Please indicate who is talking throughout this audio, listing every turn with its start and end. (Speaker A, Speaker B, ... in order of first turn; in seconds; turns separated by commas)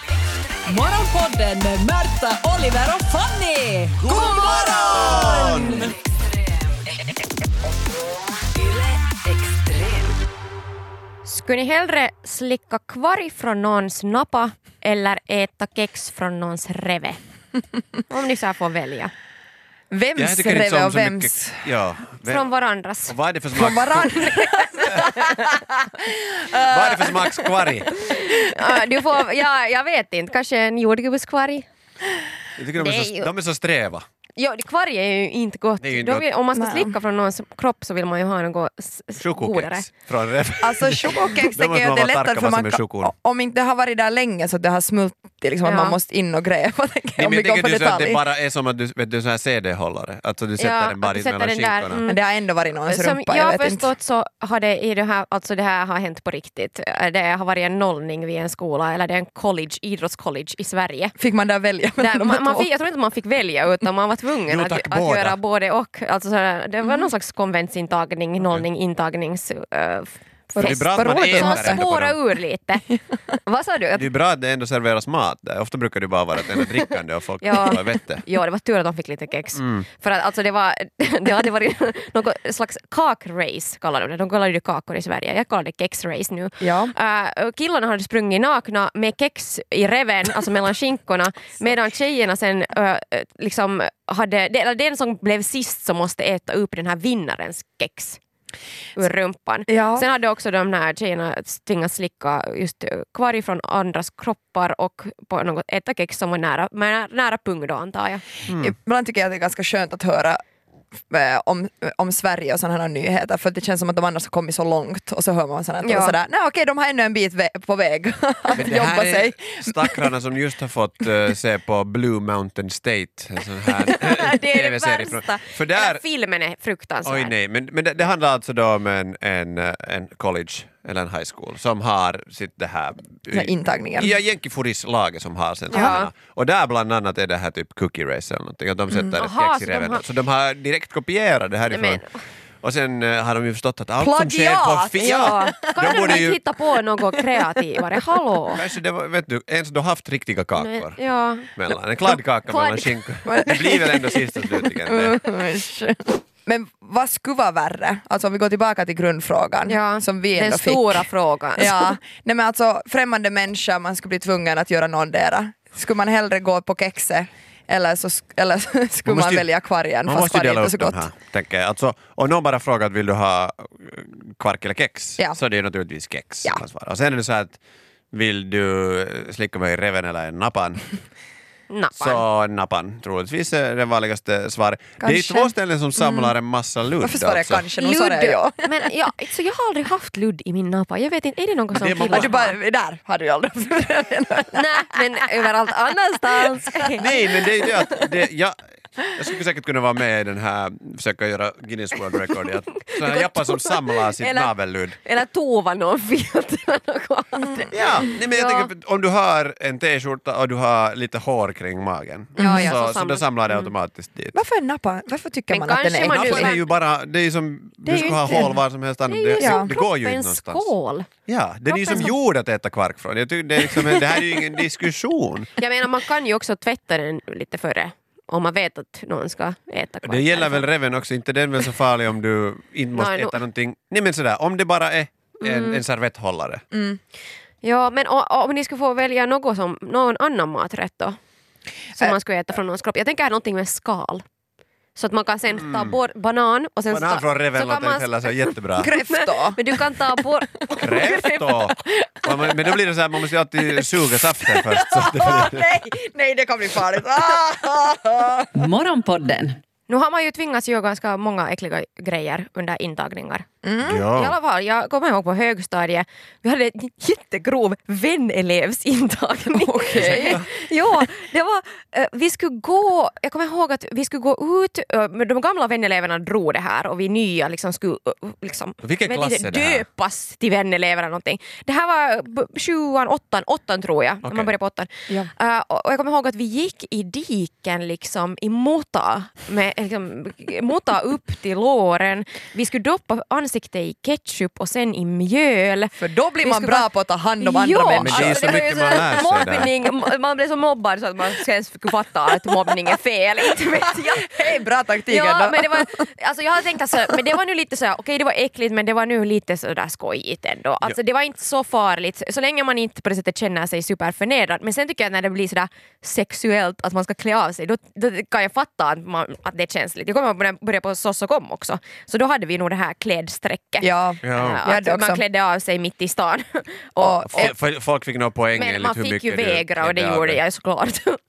Speaker A: 0.7-6.0, Speaker B: 4.0-5.9, Speaker A: 9.1-10.1, Speaker C: 11.2-17.2, Speaker C: 18.1-19.1, Speaker D: 19.9-21.7, Speaker B: 20.2-22.5, Speaker C: 22.2-23.2, Speaker B: 23.1-24.3, Speaker D: 23.5-28.8, Speaker B: 26.6-27.9, Speaker C: 27.9-31.7, Speaker B: 32.6-34.0, Speaker C: 32.8-33.3, Speaker C: 34.4-39.9, Speaker B: 35.8-36.3, Speaker D: 36.5-37.0, Speaker B: 39.2-43.1, Speaker D: 40.6-48.2, Speaker C: 45.6-46.0, Speaker B: 47.2-52.0, Speaker C: 50.6-52.2, Speaker D: 52.0-53.9, Speaker C: 52.9-61.1, Speaker D: 61.2-62.7, Speaker C: 62.0-72.8, Speaker B: 64.5-65.4, Speaker D: 70.5-71.8, Speaker B: 70.6-72.2, Speaker C: 73.4-74.1, Speaker B: 74.0-78.2, Speaker C: 77.4-98.2, Speaker D: 86.6-86.9, Speaker C: 99.0-108.2, Speaker D: 99.7-100.1, Speaker B: 108.5-108.7, Speaker D: 108.5-110.4, Speaker D: 111.1-120.1, Speaker C: 115.8-116.2, Speaker B: 118.5-126.0, Speaker C: 123.8-127.3, Speaker B: 127.0-142.1, Speaker D: 133.3-134.1, Speaker C: 135.7-136.1, Speaker D: 135.7-136.0, Speaker C: 139.1-140.1, Speaker C: 141.7-142.2, Speaker B: 142.6-146.4, Speaker D: 144.0-146.2, Speaker C: 145.0-148.6, Speaker D: 147.1-147.6, Speaker B: 148.5-151.0, Speaker C: 150.6-151.5, Speaker B: 151.5-155.2, Speaker C: 152.4-153.5, Speaker D: 153.3-171.0, Speaker C: 159.7-162.0, Speaker B: 169.1-169.5, Speaker B: 170.1-177.6, Speaker B: 178.1-180.9, Speaker C: 181.7-182.2, Speaker B: 182.0-187.7, Speaker D: 185.0-186.3, Speaker D: 187.0-188.7, Speaker C: 187.8-192.6, Speaker B: 191.7-192.4, Speaker D: 192.1-195.3, Speaker C: 194.5-197.1, Speaker D: 196.8-197.1, Speaker B: 197.0-205.0, Speaker C: 202.8-208.7, Speaker B: 207.7-214.4, Speaker C: 212.4-213.7, Speaker D: 212.4-212.8, Speaker D: 214.3-216.6, Speaker C: 215.5-216.7, Speaker B: 216.1-220.7, Speaker C: 217.9-218.6, Speaker D: 218.0-218.6, Speaker C: 219.1-221.1, Speaker D: 219.4-219.7, Speaker B: 221.3-225.6, Speaker C: 221.7-222.1, Speaker D: 223.8-224.4, Speaker C: 225.6-230.7, Speaker B: 230.1-236.6, Speaker C: 232.9-233.4, Speaker C: 235.4-235.8, Speaker D: 236.7-237.0, Speaker C: 237.6-241.2, Speaker C: 241.9-244.2, Speaker C: 244.9-251.6, Speaker B: 245.6-246.0, Speaker B: 246.9-248.9, Speaker D: 248.8-249.9, Speaker B: 250.8-255.7, Speaker D: 252.2-252.5, Speaker D: 254.1-258.7, Speaker A: 258.6-259.6, Speaker C: 259.9-263.5, Speaker D: 263.6-264.1, Speaker B: 263.8-264.4, Speaker C: 264.1-304.5, Speaker D: 269.5-270.4, Speaker B: 269.9-270.5, Speaker B: 278.8-279.9, Speaker B: 284.2-284.5, Speaker D: 296.0-299.7, Speaker B: 298.0-299.7, Speaker D: 304.1-306.1, Speaker C: 305.1-327.5, Speaker D: 323.8-325.2, Speaker B: 324.2-324.6, Speaker D: 327.0-327.5, Speaker B: 327.3-330.4, Speaker C: 328.6-331.2